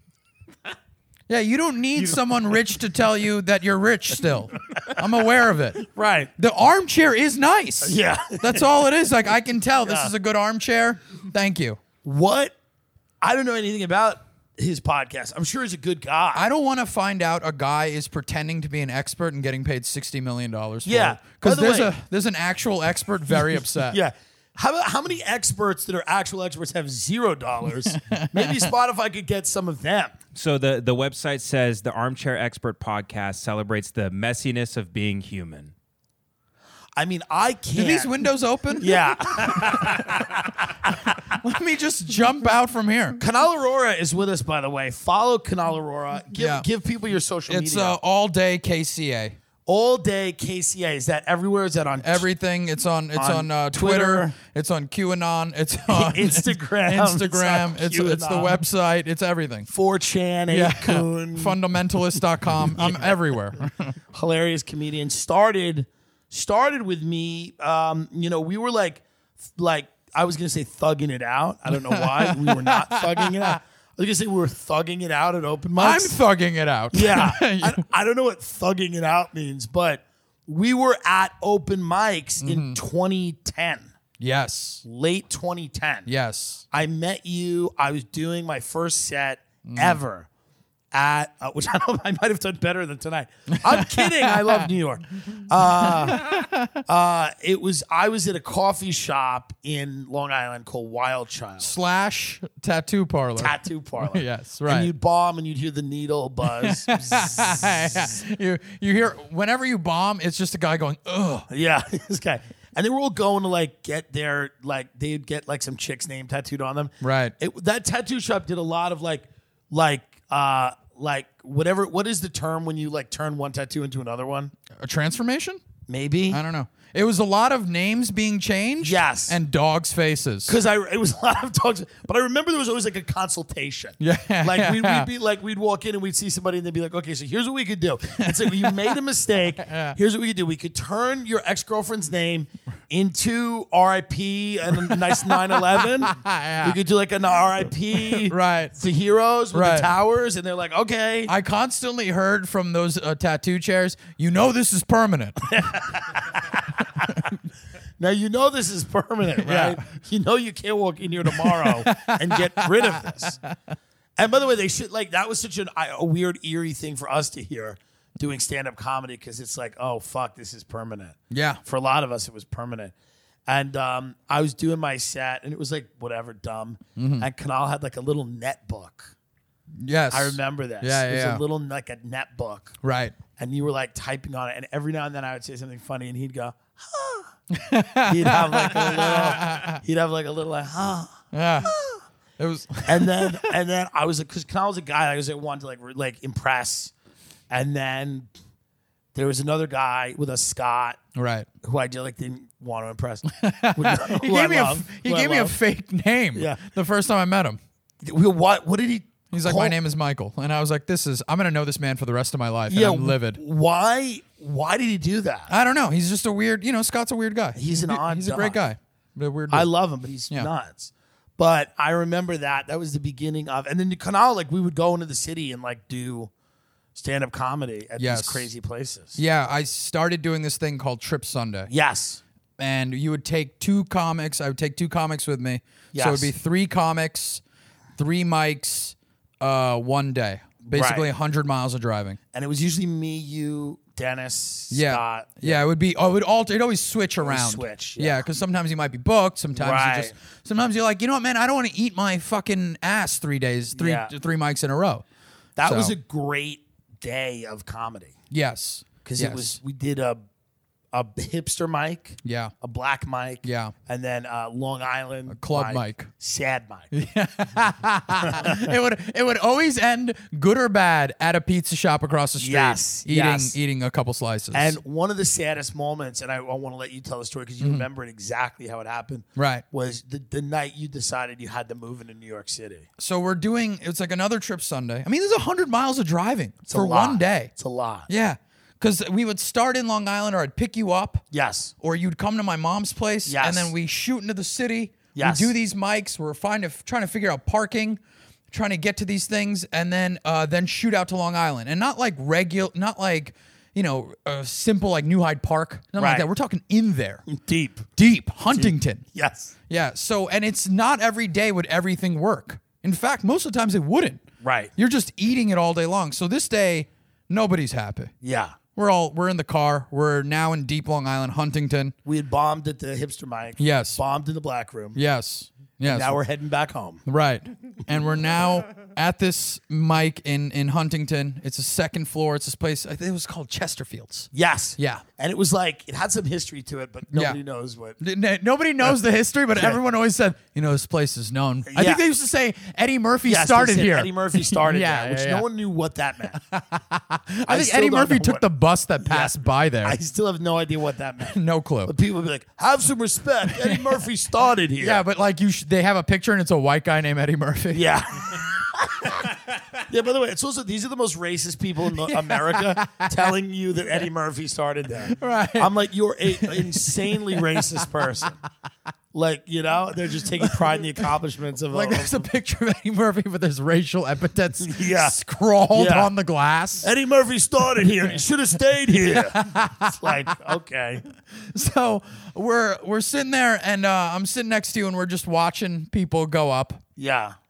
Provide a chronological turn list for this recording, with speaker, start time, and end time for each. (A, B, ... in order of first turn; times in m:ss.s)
0:01.3-0:05.8 A
0:04.7-0:05.0 B
0:05.8-0:06.3 B
0:06.4-0:11.8 A
0:07.8-0:08.7 B
0:09.8-0:10.1 B
0:12.0-0:12.6 B
0:13.2-0:16.5 B
0:16.3-0:24.0 A
0:20.8-0:21.9 B
0:23.3-0:30.2 B
0:27.8-0:28.7 A
0:30.4-0:35.7 C
0:37.0-0:38.2 B
0:37.8-0:40.2 A
0:38.8-0:41.1 B
0:40.9-0:43.2 A
0:43.2-0:48.0 B
0:46.4-0:46.7 A
0:47.5-0:49.4 A
0:49.7-0:52.3 B
0:52.0-0:59.7 A
0:53.2-0:54.4 B
0:55.9-0:58.6 B
0:59.7-1:01.6 B
1:00.5-1:04.0 A
1:02.6-1:03.4 B
1:04.1-1:16.2 B
1:11.7-1:13.6 A
1:15.8-1:17.8 A
1:16.9-1:23.9 B
1:22.4-1:22.8 A
1:24.2-1:24.8 A
1:24.8-1:26.1 B
1:26.1-1:26.6 A
1:26.7-1:30.3 B
1:29.6-1:30.0 A
1:30.9-1:41.7 B
1:33.5-1:34.7 A
1:35.6-1:36.8 A
1:41.6-1:44.9 A
1:43.4-1:48.1 B
1:46.5-1:51.5 A
1:51.5-2:04.5 B
1:57.0-1:57.3 A
2:04.7-2:05.6 A
2:05.9-2:06.4 B
2:06.3-2:10.5 A
2:08.8-2:09.4 B
2:10.5-2:31.3 B
2:14.0-2:15.1 A
2:18.2-2:19.0 A
2:19.6-2:20.0 A
2:24.7-2:26.8 A
2:27.9-2:28.7 A
2:29.5-2:29.9 A
2:31.3-2:35.5 A
2:35.4-2:37.0 B
2:38.0-2:43.4 B
2:39.4-2:39.8 A
2:41.4-2:43.6 A
2:44.2-2:52.9 B
2:51.3-2:51.6 A
2:53.5-2:59.1 B
2:57.0-2:57.3 A
2:59.8-3:01.4 A
3:00.1-3:02.8 B
3:02.8-3:03.2 A
3:03.4-3:07.3 B
3:07.5-3:09.8 A
3:08.0-3:12.0 B
3:11.3-3:11.7 A
3:12.4-3:13.5 A
3:12.8-3:16.9 B
3:17.5-3:18.3 B
3:19.1-3:21.0 B
3:21.2-3:21.5 A
3:21.6-3:25.6 B
3:23.3-3:27.6 A
3:26.4-3:26.6 B
3:28.0-3:29.8 B
3:29.3-3:33.4 A
3:32.7-3:35.5 B
3:35.5-3:39.7 A
3:37.6-3:38.6 B
3:39.5-3:46.3 B
3:47.0-3:49.2 B
3:48.0-3:48.5 A
3:49.2-3:51.7 A
3:51.7-3:52.2 B
3:52.6-3:57.4 A
3:55.9-3:56.3 B
3:58.0-4:02.2 A
4:00.6-4:01.1 B
4:02.3-4:05.6 B
4:04.7-4:15.0 A
4:07.2-4:08.2 B
4:09.6-4:10.2 B
4:13.7-4:14.1 B
4:15.6-4:18.2 B
4:15.6-4:16.0 A
4:18.3-4:19.6 A
4:19.0-4:20.2 B
4:20.9-4:26.9 B
4:22.2-4:22.5 A
4:23.4-4:23.7 A
4:25.3-4:26.1 A
4:26.9-4:34.8 A
4:28.3-4:28.7 B
4:32.4-4:33.6 B
4:34.5-4:42.9 B
4:37.6-4:37.9 A
4:39.4-4:39.6 A
4:43.0-4:47.5 A
4:46.7-4:48.1 B
4:48.1-4:51.2 A
4:51.3-4:51.7 B
4:51.8-4:58.0 A
4:53.3-4:53.7 B
4:55.2-4:55.5 B
4:58.5-5:07.2 A
5:06.0-5:06.3 B
5:07.3-5:07.9 B
5:08.0-5:09.0 A
5:08.5-5:09.5 B
5:09.7-5:14.2 A
5:14.4-5:14.7 B
5:14.8-5:18.1 A
5:18.2-5:18.6 B
5:18.8-5:21.9 A
5:22.0-5:25.0 B
5:23.6-5:24.0 A
5:25.0-5:26.2 A
5:25.8-5:27.0 B
5:27.1-5:35.0 A
5:34.3-5:38.0 B
5:37.1-5:37.4 A
5:38.0-5:45.5 A
5:41.7-5:42.0 B
5:43.3-5:46.4 B
5:46.3-5:50.0 A
5:47.5-5:48.4 B
5:49.0-5:55.0 B
5:51.3-5:51.9 A
5:53.5-5:54.0 A
5:54.8-5:57.9 A
5:57.7-6:08.4 B
6:02.0-6:03.3 A
6:05.1-6:05.8 A
6:06.3-6:08.3 A
6:09.1-6:12.2 B
6:10.4-6:10.7 A
6:11.7-6:16.9 A
6:14.6-6:15.2 B
6:15.7-6:16.1 B
6:16.8-6:21.0 B
6:19.0-6:20.4 A
6:21.3-6:26.8 A
6:27.0-6:27.4 B